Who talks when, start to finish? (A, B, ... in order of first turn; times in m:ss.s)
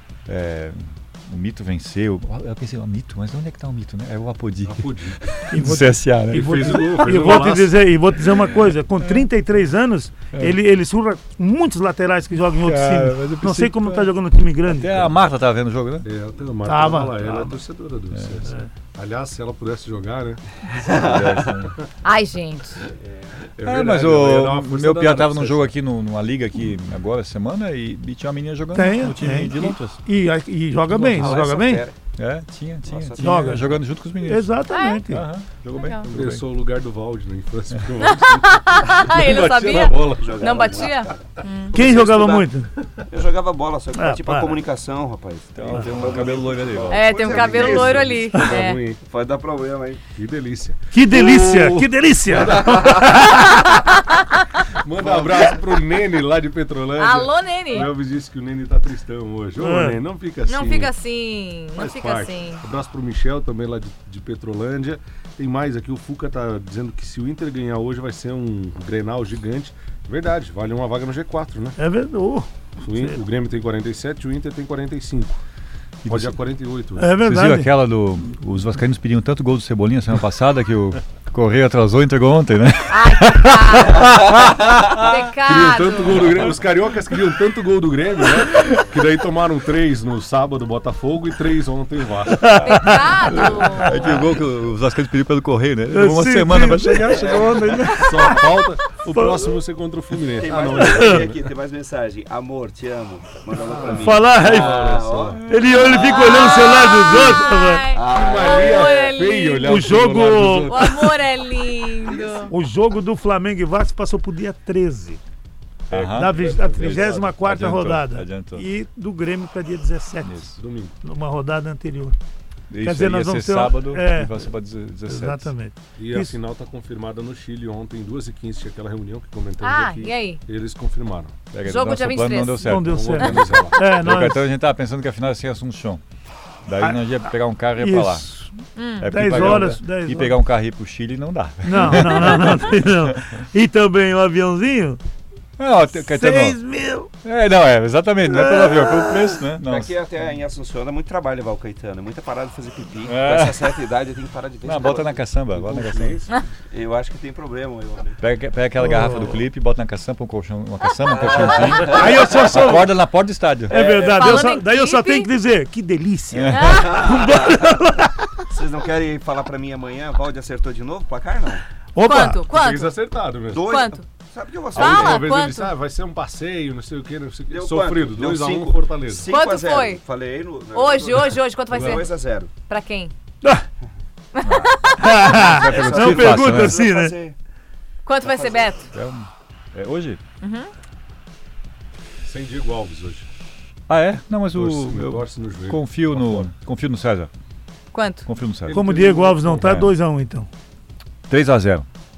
0:00.3-0:07.5 A
0:04.6-0:05.4 B
0:05.5-0:15.1 C
0:06.3-0:07.8 B
0:08.2-0:09.3 A
0:12.6-0:14.1 A
0:14.7-0:16.1 A
0:16.0-0:20.4 B
0:16.7-0:17.6 C
0:20.8-0:21.8 A
0:20.8-0:21.4 D
0:22.0-0:22.8 E
0:23.6-0:25.7 B
0:23.6-0:30.0 A
0:28.7-0:31.8 C
0:30.9-0:31.3 A
0:31.0-0:32.0 D
0:32.2-0:34.5 A
0:32.9-0:33.5 D
0:33.2-0:35.2 C
0:34.7-0:35.0 E
0:35.1-0:36.5 A
0:35.7-0:36.1 E
0:36.1-0:40.4 B
0:38.0-0:41.8 E
0:40.1-0:42.5 D
0:41.8-0:42.7 C
0:43.1-0:48.3 D
0:44.0-0:44.6 C
0:45.6-0:47.8 A
0:46.9-0:48.8 E
0:47.6-0:49.0 B
0:49.0-0:50.0 D
0:50.2-0:53.3 B
0:50.9-0:53.7 C
0:52.4-0:53.2 D
0:54.8-1:00.9 B
0:55.0-0:55.5 D
0:57.0-0:57.9 E
0:59.6-1:00.0 C
1:00.5-1:02.6 E
1:01.8-1:11.8 B
1:11.8-1:13.2 C
1:12.8-1:15.4 B
1:16.0-1:16.4 A
1:16.1-1:17.2 B
1:17.0-1:17.7 C
1:17.2-1:24.2 A
1:22.9-1:24.2 E
1:24.9-1:26.3 E
1:25.4-1:32.7 B
1:32.4-1:34.1 C
1:32.6-1:34.0 E
1:33.4-1:38.2 A
1:35.9-1:38.5 C
1:37.2-1:37.6 D
1:38.0-1:41.3 B
1:39.2-1:39.5 D
1:40.3-1:47.2 D
1:40.7-1:41.2 C
1:43.5-1:45.4 B
1:43.9-1:47.8 C
1:45.5-1:45.8 A
1:45.8-1:49.8 E
1:47.9-1:49.2 D
1:48.1-1:51.2 B
1:49.6-1:50.8 C
1:50.7-1:52.5 E
1:52.2-1:52.5 D
1:52.2-1:52.5 B
1:52.5-1:55.2 C
1:55.9-1:58.7 A
1:55.9-1:57.4 B
1:56.0-2:00.5 C
2:00.2-2:00.6 A
2:00.6-2:01.0 B
2:01.0-2:02.2 C
2:02.7-2:05.5 A
2:02.8-2:04.5 C
2:05.1-2:06.4 C
2:06.0-2:11.4 B
2:09.6-2:10.4 E
2:11.5-2:16.0 A
2:11.6-2:12.8 E
2:12.6-2:14.4 C
2:12.7-2:14.1 B
2:16.7-2:18.3 A
2:17.8-2:18.6 C
2:18.8-2:19.2 E
2:19.0-2:23.2 A
2:19.1-2:20.4 C
2:21.6-2:25.0 C
2:25.6-2:26.6 A
2:26.0-2:27.1 C
2:27.2-2:29.9 A
2:28.3-2:29.4 C
2:29.6-2:38.2 D
2:33.0-2:33.7 A
2:34.6-2:36.2 A
2:38.2-2:43.8 A
2:38.8-2:39.4 C
2:41.1-2:42.8 D
2:41.8-2:42.9 C
2:43.7-2:44.5 D
2:43.7-2:48.3 C
2:44.0-2:45.3 E
2:46.3-2:46.9 A
2:46.5-2:47.0 E
2:46.6-2:47.8 D
2:48.5-2:51.6 D
2:52.0-2:52.4 C
2:52.0-2:53.0 E
2:52.5-2:53.7 B
2:53.5-2:54.0 E
2:53.5-2:55.3 D
2:54.7-2:55.7 E
2:54.7-2:59.3 B
2:57.5-3:02.5 D
2:59.3-3:00.0 E
3:00.7-3:03.1 E
3:01.7-3:02.0 B
3:04.3-3:05.2 E
3:04.4-3:06.8 A
3:05.0-3:07.2 C
3:05.2-3:07.4 D
3:08.0-3:08.9 E
3:08.2-3:08.7 D
3:08.9-3:10.2 A
3:10.4-3:10.7 E
3:12.2-3:13.3 B
3:13.9-3:17.3 A
3:14.5-3:16.5 B
3:17.9-3:18.3 E
3:18.3-3:18.8 A
3:18.6-3:19.8 B
3:18.7-3:20.5 C
3:19.5-3:19.9 A
3:21.3-3:21.9 A